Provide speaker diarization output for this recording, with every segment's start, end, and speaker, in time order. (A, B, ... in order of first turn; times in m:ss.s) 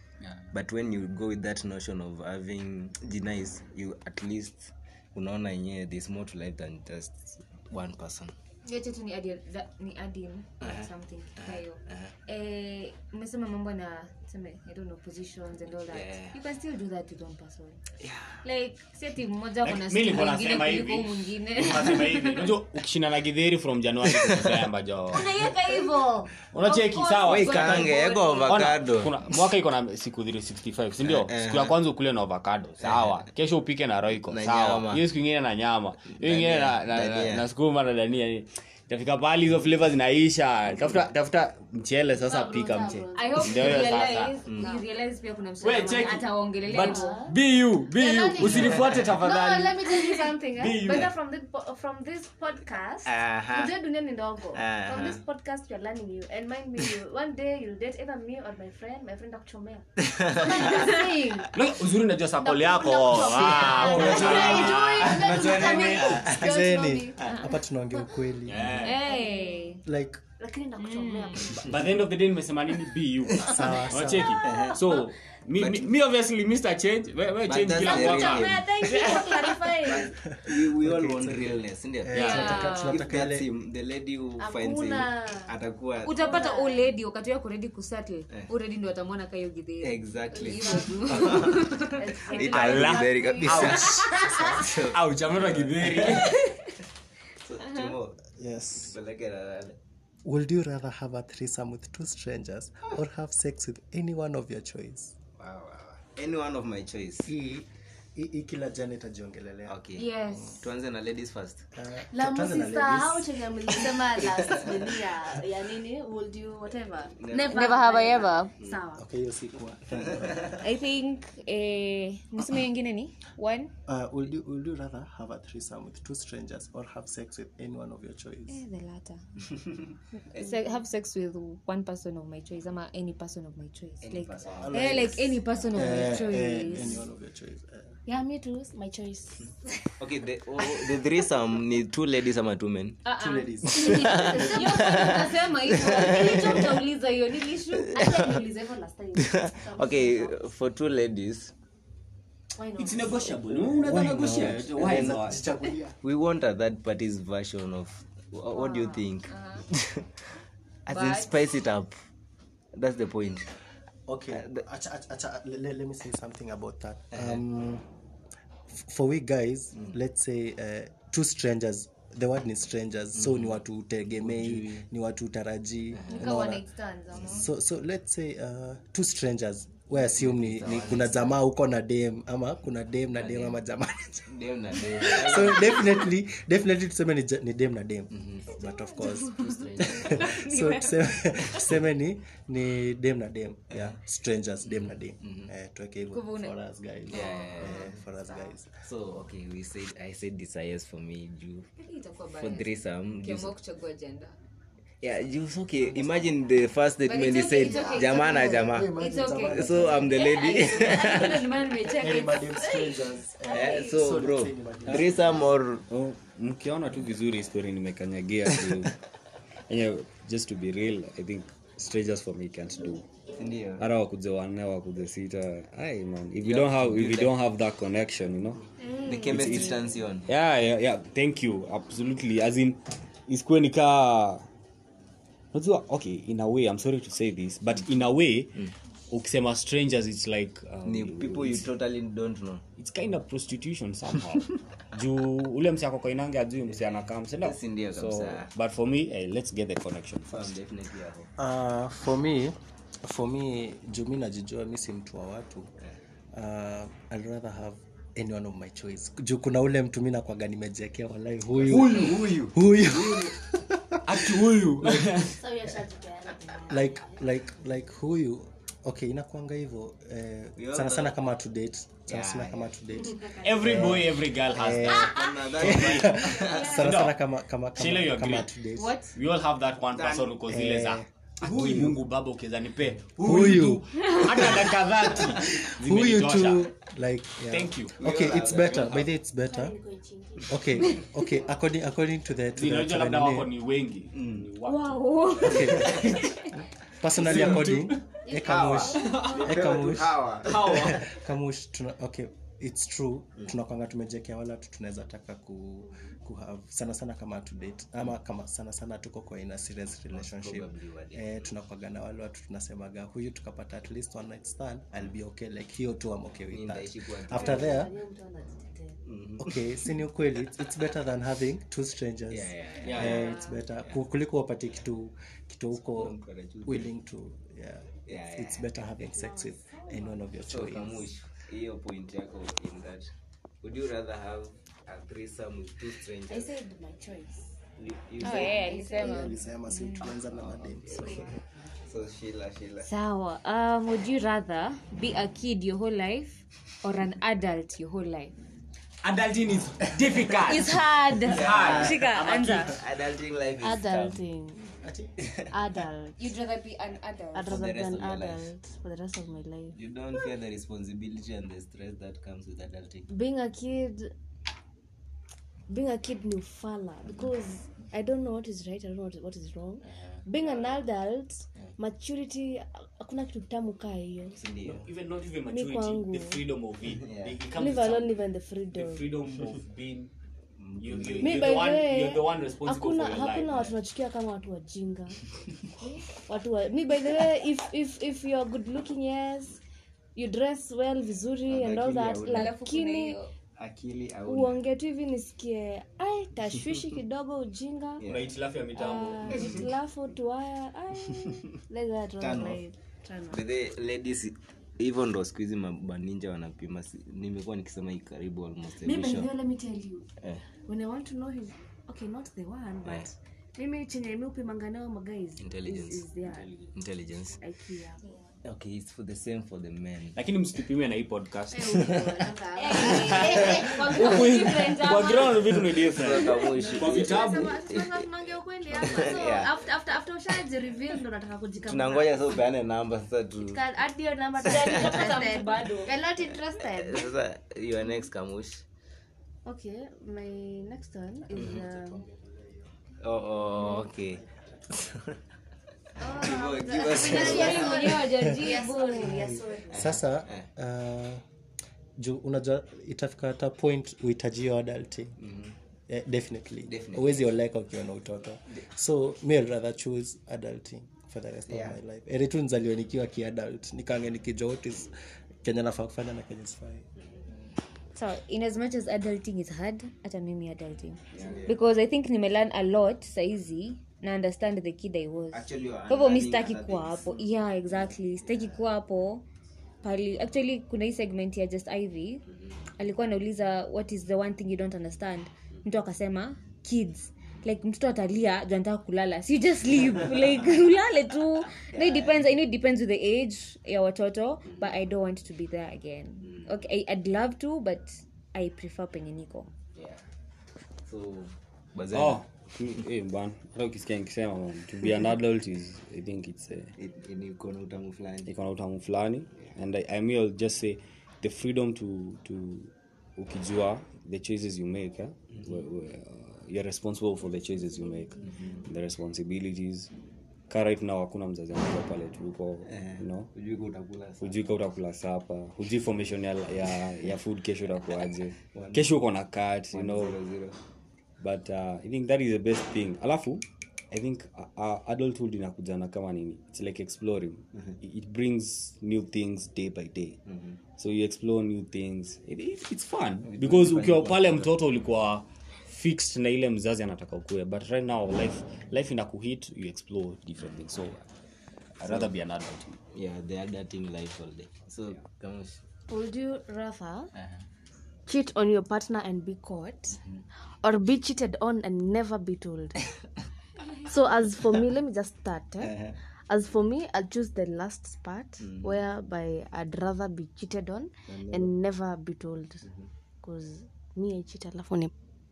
0:00.5-0:08.3 A
0:08.6-0:17.8 B
0:10.6-0:12.1 A
0:15.9-0:16.4 A
0:18.0-0:18.4 A
0:18.4-0:22.5 B
0:19.6-0:25.4 C
0:24.2-0:24.4 A
0:25.1-0:28.6 B
0:26.5-0:44.4 C
0:27.3-0:29.4 A
0:31.0-0:31.7 A
0:32.8-0:33.2 A
0:34.3-0:35.0 A
0:36.1-0:37.4 A
0:42.2-0:44.0 D
0:43.1-0:47.2 B
0:44.4-0:44.7 A
0:45.6-0:49.9 C
0:46.7-0:47.4 D
0:48.0-1:01.5 D
0:48.4-0:49.0 A
0:50.5-0:51.1 C
0:53.0-0:53.7 A
0:54.5-0:55.2 A
1:00.0-1:00.9 A
1:00.4-1:01.4 B
1:01.5-1:05.8 C
1:02.4-1:07.4 D
1:03.7-1:04.7 B
1:03.8-1:04.4 E
1:03.9-1:06.6 A
1:05.8-1:08.9 E
1:08.4-1:09.0 C
1:08.8-1:09.8 D
1:08.8-1:09.8 B
1:09.8-1:10.2 E
1:10.4-1:11.8 D
1:10.8-1:11.5 B
1:11.5-1:18.6 C
1:13.4-1:14.4 E
1:14.3-1:15.0 D
1:14.4-1:14.8 A
1:15.6-1:15.9 A
1:17.4-1:26.2 A
1:17.8-1:20.2 D
1:20.3-1:23.4 E
1:22.1-1:22.5 C
1:22.1-1:23.0 B
1:24.4-1:25.5 D
1:26.0-1:34.5 B
1:26.2-1:26.9 D
1:29.8-1:36.3 A
1:30.4-1:31.3 D
1:32.0-1:33.6 D
1:32.5-1:36.6 C
1:37.4-1:38.2 A
1:37.6-1:37.9 B
1:38.4-1:39.0 E
1:38.8-1:39.8 A
1:40.2-1:45.2 E
1:45.4-1:47.3 A
1:47.2-1:49.8 E
1:49.7-1:51.7 A
1:50.0-1:50.7 B
1:51.7-1:53.5 E
1:52.0-1:59.0 D
1:54.2-1:54.9 A
1:57.2-1:58.0 A
1:57.3-1:58.5 B
1:59.0-2:00.6 E
2:00.1-2:00.5 A
2:00.6-2:03.7 B
2:03.8-2:08.6 E
2:08.5-2:09.2 B
2:10.2-2:17.0 B
2:14.0-2:14.7 A
2:14.4-2:14.7 C
2:14.6-2:18.0 E
2:18.0-2:19.9 D
2:20.0-2:23.0 A
2:20.6-2:21.0 D
2:23.0-2:28.4 B
2:23.2-2:24.3 E
2:23.7-2:26.7 A
2:24.3-2:25.2 D
2:27.9-2:30.3 D
2:28.0-2:28.4 A
2:29.2-2:31.5 A
2:32.6-2:32.9 B
2:32.8-2:35.5 C
2:33.6-2:36.0 E
2:33.9-2:35.4 A
2:36.0-2:40.3 A
2:38.5-2:39.6 B
2:40.9-2:42.0 A
2:40.9-2:41.3 B
2:42.7-2:43.6 A
2:44.1-2:47.8 E
2:44.3-2:44.6 A
2:47.1-2:47.4 A
2:48.7-2:56.6 E
2:53.2-2:53.5 A
2:54.2-2:54.8 A
2:55.9-2:56.4 A
2:56.1-2:57.5 B
2:57.2-3:18.8 E
3:00.0-3:01.3 A
3:03.2-3:03.6 A
3:04.3-3:06.1 A
3:08.1-3:08.5 A
3:08.6-3:11.1 B
3:09.3-3:10.4 A
3:13.7-3:14.0 A
3:14.6-3:15.5 A
3:16.1-3:16.5 B
3:17.1-3:18.0 A
3:17.1-3:18.4 B
3:18.8-3:21.7 A
3:21.8-3:24.4 B
3:22.4-3:23.5 A
3:25.0-3:28.9 A
3:25.8-3:26.4 E
3:27.0-3:34.0 B
3:27.6-3:28.5 D
3:28.0-3:30.2 E
3:29.5-3:31.4 A
3:31.8-3:35.5 E
3:33.5-3:35.8 A
3:35.9-3:38.9 C
3:39.7-3:43.0 C
3:43.4-3:43.8 A
3:43.8-3:48.6 C
3:46.4-3:47.3 A
3:48.8-3:49.7 B
3:49.0-3:50.3 A
3:49.3-3:54.5 C
3:55.5-4:01.7 C
4:00.8-4:02.6 A
4:02.8-4:10.5 C
4:07.4-4:08.5 A
4:10.3-4:11.3 A
4:11.4-4:15.7 E
4:16.3-4:24.4 E
4:21.6-4:23.4 A
4:21.7-4:22.4 C
4:24.0-4:25.3 C
4:24.8-4:25.3 A
4:25.2-4:27.2 D
4:26.7-4:39.0 E
4:30.6-4:31.1 A
4:32.1-4:32.7 A
4:33.4-4:37.2 C
4:35.0-4:36.8 A
4:36.3-4:36.7 B
4:37.7-4:46.7 C
4:38.8-4:39.1 B
4:39.9-4:40.3 A
4:40.5-4:41.9 E
4:43.2-4:49.8 E
4:47.5-4:48.0 C
4:48.0-4:49.1 A
4:49.4-4:50.6 D
4:50.5-4:53.5 E
4:52.5-4:56.1 C
4:54.1-4:54.5 A
4:54.6-4:56.5 B
4:55.4-4:56.1 E
4:55.7-4:56.2 A
4:57.0-5:17.9 E
4:57.1-5:01.1 C
4:57.2-4:57.6 A
4:58.3-4:59.3 D
4:59.3-5:01.0 A
5:10.1-5:11.5 A
5:16.5-5:17.8 A
5:17.3-5:19.0 D
5:19.0-5:19.5 A
5:19.4-5:31.1 E
5:22.3-5:23.2 A
5:22.8-5:23.2 C
5:23.0-5:23.6 B
5:25.8-5:26.9 A
5:28.1-5:28.6 A
5:29.1-5:30.2 D
5:30.4-5:33.0 A
5:33.6-5:36.5 A
5:36.3-5:37.5 D
5:37.8-5:38.7 A
5:38.2-5:40.1 B
5:38.2-5:39.4 D
5:38.9-5:41.3 E
5:40.1-5:42.9 A
5:40.9-5:41.3 D
5:42.8-5:48.3 B
5:49.0-5:52.8 C
5:50.5-5:52.7 B
5:51.2-5:52.0 A
5:52.7-5:54.2 A
5:53.6-5:54.8 D
5:54.8-5:55.1 E
5:55.5-5:56.2 D
5:56.2-5:57.6 B
5:57.3-6:00.2 D
5:57.5-5:58.5 A
5:59.7-6:03.1 A
6:03.1-6:04.1 D
6:05.7-6:14.4 D
6:09.9-6:10.8 A
6:14.4-6:14.8 A
6:14.7-6:18.2 C
6:15.5-6:16.4 D
6:17.0-6:17.4 A
6:17.5-6:19.1 D
6:18.7-6:20.1 C
6:20.6-6:21.6 A
6:20.8-6:23.7 C
6:21.2-6:25.2 D
6:25.8-6:29.6 D
6:30.2-6:33.2 D
6:31.5-6:32.5 A
6:32.3-6:33.3 B
6:33.6-6:34.6 A
6:34.2-6:38.0 D
6:38.0-6:38.3 A
6:38.0-6:39.7 C
6:38.7-6:43.4 D
6:39.3-6:39.6 A
6:42.2-6:42.6 A
6:43.3-6:49.3 A
6:48.7-6:50.1 D
6:50.6-6:56.5 D
6:55.4-6:56.0 A
6:56.3-6:56.7 C
6:56.7-6:57.4 A
6:57.4-6:58.0 D
6:58.4-7:00.2 A
7:00.1-7:01.9 C
7:01.5-7:04.4 D
7:01.8-7:02.1 A
7:02.6-7:05.5 B
7:02.8-7:03.7 A
7:03.2-7:07.7 C
7:05.4-7:08.0 A
7:06.4-7:12.4 D
7:08.7-7:09.5 A
7:11.6-7:13.6 A
7:13.4-7:17.1 D
7:14.4-7:15.9 B
7:14.5-7:15.1 A
7:16.5-7:18.6 A
7:19.4-7:22.0 D
7:21.2-7:22.8 E
7:21.3-7:21.6 A
7:23.0-7:25.2 A
7:23.5-7:23.8 D
7:23.8-7:24.7 E
7:26.0-7:30.0 D
7:26.0-7:28.0 A
7:26.8-7:29.3 B
7:29.0-7:31.2 E
7:29.7-7:30.5 A
7:32.0-7:35.2 E
7:35.2-7:35.6 A
7:35.9-7:46.9 E
7:36.7-7:37.2 A
7:41.5-7:41.8 A
7:47.9-7:59.2 B
7:51.1-7:51.6 A
7:55.3-7:57.2 A
7:59.8-8:02.2 B
8:02.8-8:19.5 B
8:11.7-8:12.2 A
8:16.2-8:16.5 A
8:19.8-8:20.0 A
8:20.8-8:22.4 A
8:21.9-8:26.7 C
8:26.8-8:28.3 A
8:28.2-8:39.9 C
8:40.5-8:43.3 C
8:42.7-8:44.5 A
8:44.2-8:50.2 C
8:48.5-8:48.9 A
8:49.7-8:50.6 A
8:51.2-9:00.2 C
9:00.3-9:00.6 A
9:00.8-9:11.0 C
9:03.2-9:04.5 A
9:11.8-9:12.8 C
9:11.8-9:12.1 A
9:12.9-9:15.6 A
9:15.9-9:17.1 D
9:17.2-9:17.4 A
9:18.0-9:20.0 D
9:20.6-9:22.8 D
9:23.8-9:32.7 D
9:25.6-9:26.0 A
9:28.4-9:28.8 A
9:31.1-9:31.5 A
9:33.2-9:34.9 D